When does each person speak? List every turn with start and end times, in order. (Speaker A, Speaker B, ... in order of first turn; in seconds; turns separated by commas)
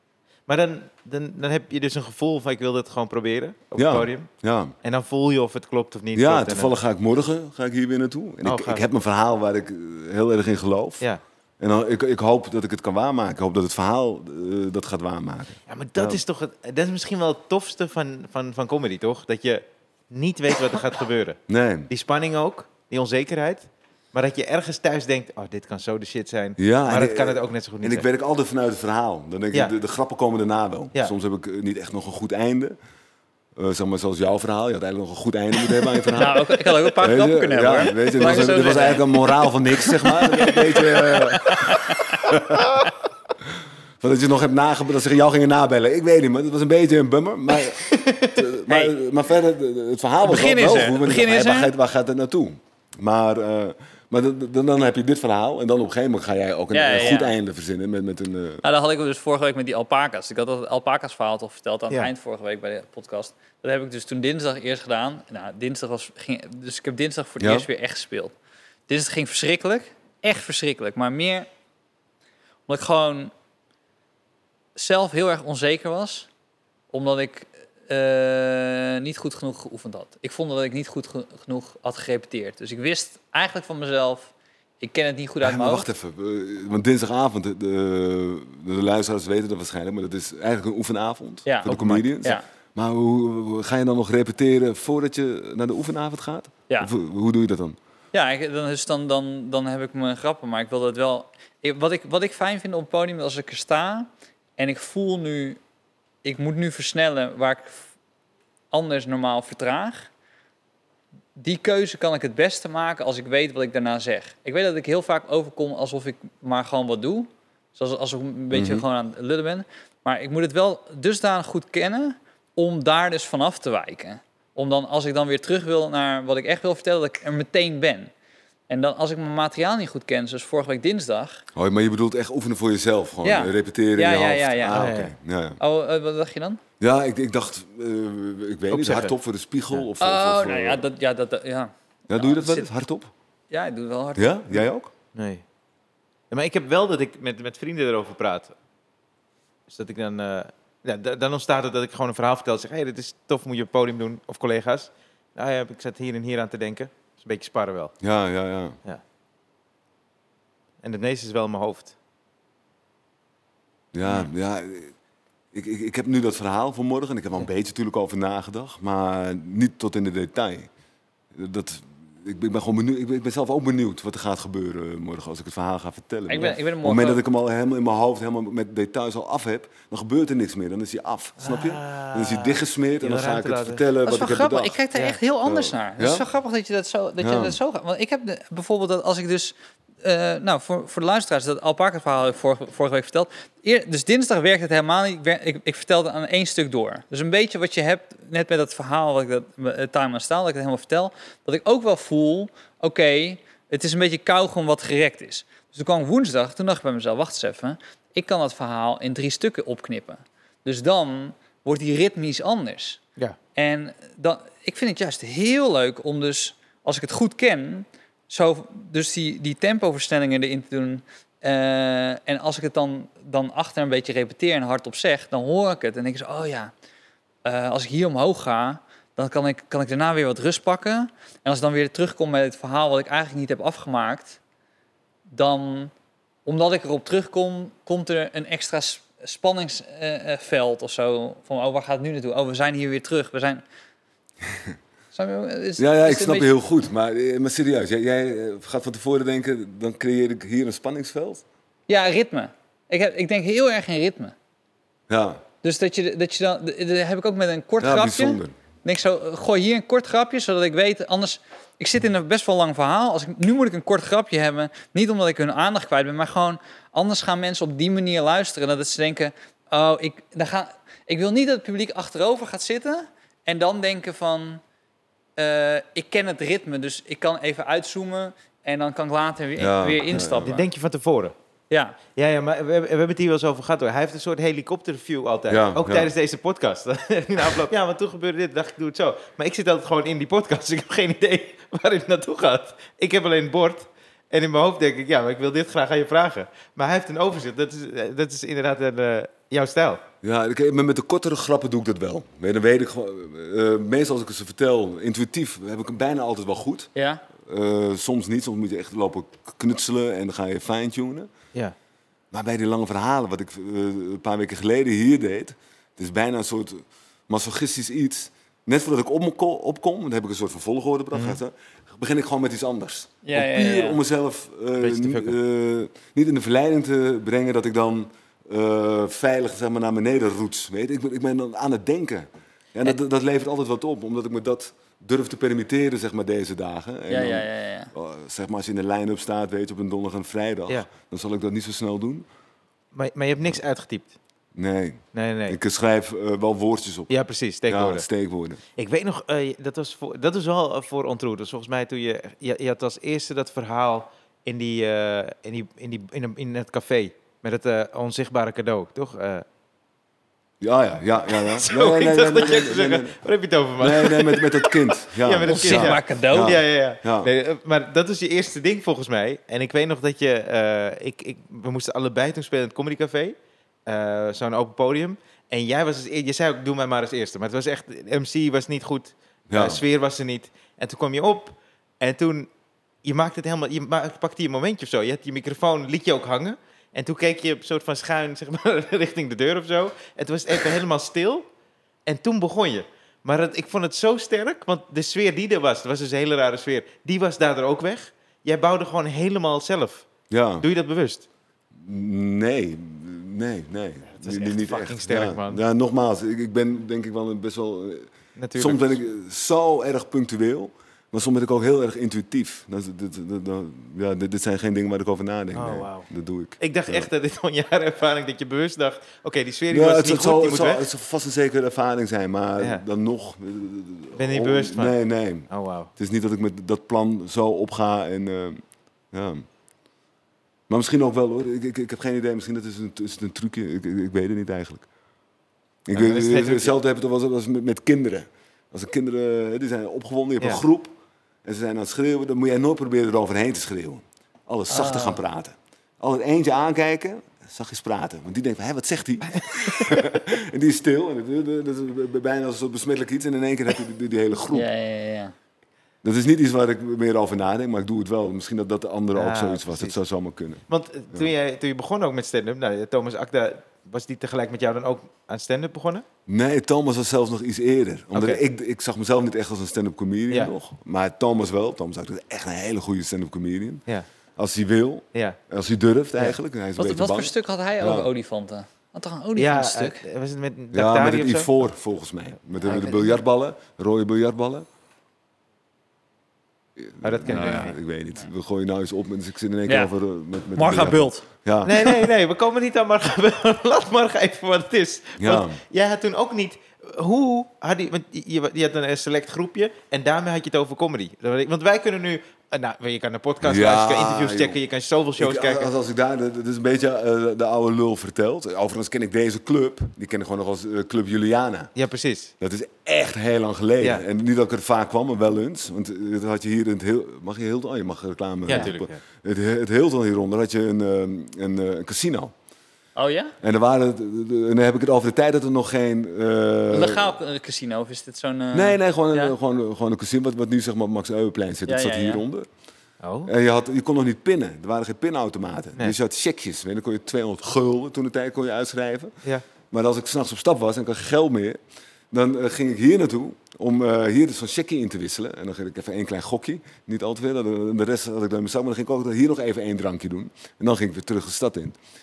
Speaker A: 0.5-4.3, Speaker B: 3.8-4.8, Speaker A: 4.8-6.7, Speaker B: 6.1-11.1, Speaker A: 8.4-8.8, Speaker B: 11.6-16.2, Speaker A: 15.7-28.1, Speaker B: 21.5-21.9, Speaker B: 26.6-32.8, Speaker B: 33.5-42.6, Speaker C: 36.1-39.2, Speaker C: 40.0-42.2, Speaker B: 44.0-58.6, Speaker A: 47.8-48.4, Speaker C: 48.7-49.0, Speaker C: 50.2-51.7, Speaker C: 56.7-57.4, Speaker C: 58.6-68.3, Speaker B: 67.4-67.7, Speaker C: 68.9-71.5, Speaker C: 72.7-73.3, Speaker C: 74.7-76.3, Speaker C: 76.9-85.9, Speaker B: 85.4-97.8, Speaker C: 91.5-92.4, Speaker A: 91.7-92.1, Speaker C: 98.1-105.6, Speaker C: 106.2-107.9, Speaker C: 108.7-110.1, Speaker C: 111.3-128.1, Speaker B: 118.5-118.8, Speaker C: 128.7-131.4, Speaker B: 131.5-135.6, Speaker C: 133.2-134.9, Speaker A: 134.7-135.1, Speaker C: 135.6-136.6, Speaker B: 136.8-140.8, Speaker A: 138.7-139.1, Speaker C: 140.0-142.7, Speaker B: 142.1-143.1, Speaker C: 143.5-144.7, Speaker B: 144.2-144.9, Speaker A: 145.1-145.4, Speaker A: 146.3-148.5, Speaker A: 149.7-157.9, Speaker B: 158.0-158.8, Speaker A: 160.8-161.9, Speaker B: 163.9-164.9, Speaker B: 165.5-170.7, Speaker B: 171.3-184.8, Speaker C: 176.3-177.2, Speaker A: 181.4-183.8, Speaker C: 184.0-213.0, Speaker B: 185.4-186.2, Speaker B: 187.2-187.6, Speaker C: 213.6-226.7, Speaker C: 227.4-234.4, Speaker C: 235.3-235.9, Speaker C: 236.4-243.6, Speaker C: 245.1-246.5, Speaker B: 245.8-251.4, Speaker C: 251.9-254.3, Speaker B: 255.1-255.4, Speaker C: 255.6-274.6, Speaker B: 257.8-258.5, Speaker C: 275.4-280.6, Speaker B: 279.6-280.6, Speaker A: 280.4-281.3, Speaker C: 281.7-282.0, Speaker A: 282.1-300.0, Speaker B: 285.5-286.1, Speaker B: 300.2-311.3, Speaker C: 306.9-307.2, Speaker B: 312.3-342.2, Speaker A: 321.1-321.4, Speaker C: 323.2-324.0, Speaker A: 324.8-325.4, Speaker C: 337.1-337.9, Speaker A: 342.9-344.1, Speaker B: 344.5-347.1, Speaker A: 345.1-345.6, Speaker A: 347.1-348.1, Speaker B: 347.7-348.6, Speaker A: 348.8-359.4, Speaker B: 360.6-363.2, Speaker A: 361.3-373.4, Speaker B: 363.8-367.3, Speaker C: 365.4-366.6, Speaker A: 373.9-382.5, Speaker B: 379.5-379.8, Speaker A: 383.0-391.4, Speaker A: 392.1-400.1, Speaker B: 400.3-400.7, Speaker A: 400.6-401.2, Speaker B: 401.7-417.1, Speaker A: 404.1-405.6, Speaker A: 408.4-409.0, Speaker A: 415.5-416.1, Speaker A: 416.6-420.9, Speaker B: 419.7-429.4, Speaker A: 422.6-422.8, Speaker A: 424.1-425.0, Speaker A: 425.5-425.9, Speaker B: 430.7-434.9, Speaker B: 435.9-440.9, Speaker A: 435.9-436.7, Speaker B: 441.4-454.7, Speaker C: 444.7-445.2, Speaker A: 449.4-450.1, Speaker C: 454.5-455.3, Speaker B: 456.0-461.3, Speaker A: 459.1-459.9, Speaker A: 460.7-466.0, Speaker B: 466.3-473.8, Speaker A: 468.1-468.4, Speaker B: 474.4-478.1, Speaker A: 475.1-475.4, Speaker C: 476.8-480.0, Speaker A: 479.4-481.5, Speaker B: 480.7-484.6, Speaker A: 482.6-483.1, Speaker B: 486.8-492.1, Speaker A: 487.0-487.8, Speaker C: 490.5-491.2, Speaker A: 491.6-505.7, Speaker B: 495.2-495.6, Speaker B: 503.4-504.6, Speaker B: 505.2-511.7, Speaker A: 511.8-512.3, Speaker B: 512.4-522.3, Speaker A: 518.5-519.0, Speaker C: 523.0-523.3, Speaker B: 523.4-527.1, Speaker C: 526.7-529.3, Speaker B: 528.5-532.5, Speaker C: 531.6-532.2, Speaker A: 533.0-533.3, Speaker B: 533.2-539.1, Speaker B: 539.7-541.6, Speaker B: 542.1-551.8